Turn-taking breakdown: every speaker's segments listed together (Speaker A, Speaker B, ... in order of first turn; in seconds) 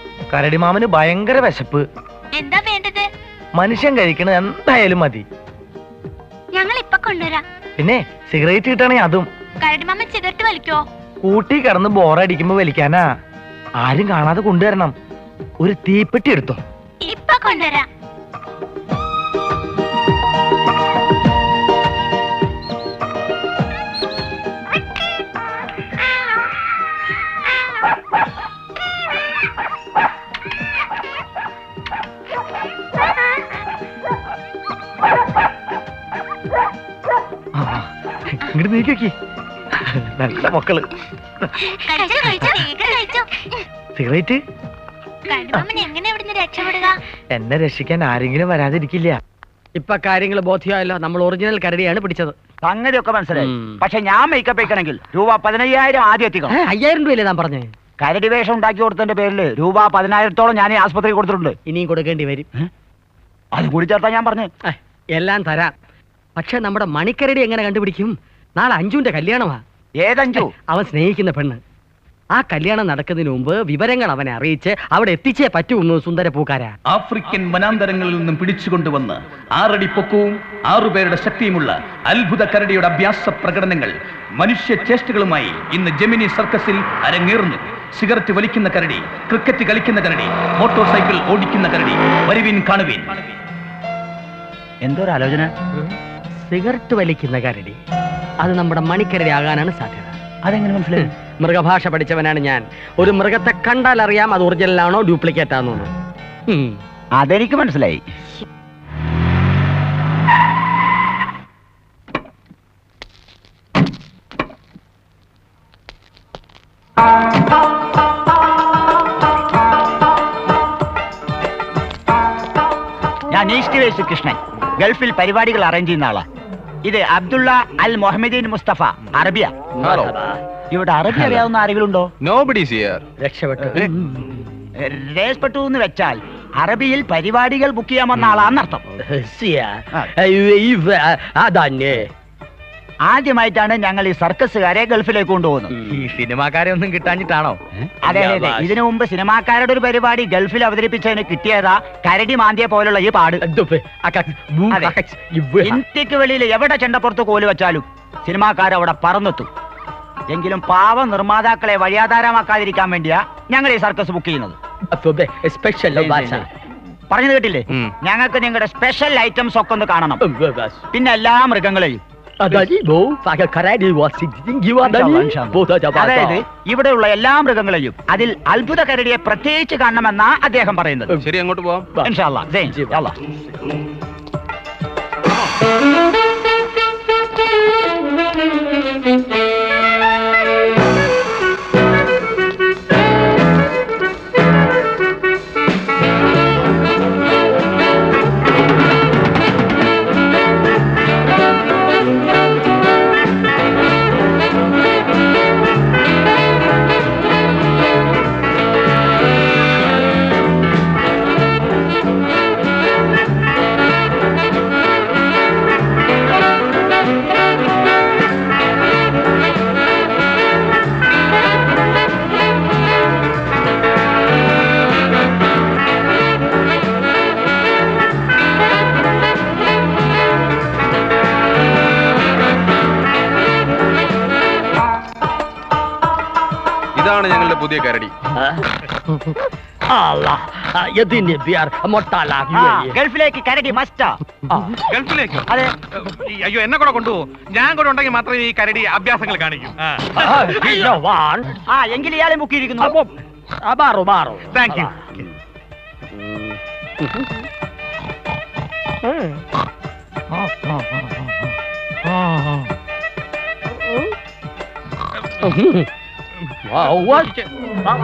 Speaker A: 0.3-1.8, 3.6-5.2, 7.8-9.2, 11.2-13.0, 13.8-14.9, 15.6-16.6, 37.6-37.8, 38.4-39.1, 40.2-40.9, 44.0-44.4, 47.3-49.2
Speaker B: 2.3-3.0, 6.5-7.4, 9.6-10.8, 17.0-17.9, 41.7-43.4, 45.3-46.9
Speaker C: 49.8-52.3, 53.4-53.8, 56.5-57.7, 61.6-62.5, 64.6-65.7, 66.4-69.6, 70.3-71.6, 72.3-76.7, 95.8-97.8, 98.4-100.1, 100.9-105.9, 106.5-106.8, 129.8-130.4, 133.2-133.9, 139.0-142.1, 148.1-148.8, 153.4-155.8, 164.9-166.4, 170.2-170.8, 172.4-176.4, 181.9-183.1, 239.9-243.0, 250.1-251.5, 252.8-253.1, 253.6-255.3, 256.1-257.2, 265.4-265.9, 266.6-267.3
Speaker D: 52.6-56.5, 58.0-61.5, 63.5-64.5, 70.0-70.5, 94.8-95.5, 100.4-101.0, 107.2-108.0, 123.3-126.2, 126.8-129.5, 130.7-132.1, 134.8-138.8, 143.1-145.7, 148.0-153.4, 155.6-159.5, 160.3-164.6, 167.1-170.2, 170.9-172.0, 174.8-181.1, 182.0-183.1, 242.5-244.2, 251.7-253.0
Speaker E: 76.9-78.9, 82.2-82.9, 83.4-83.8, 84.6-88.8, 89.5-90.2, 91.5-91.7, 92.3-93.0
Speaker F: 129.8-130.1, 132.2-133.0, 181.2-181.9, 236.9-238.1
Speaker G: 146.0-147.6, 166.0-166.3
Speaker H: 244.9-250.1, 254.5-254.9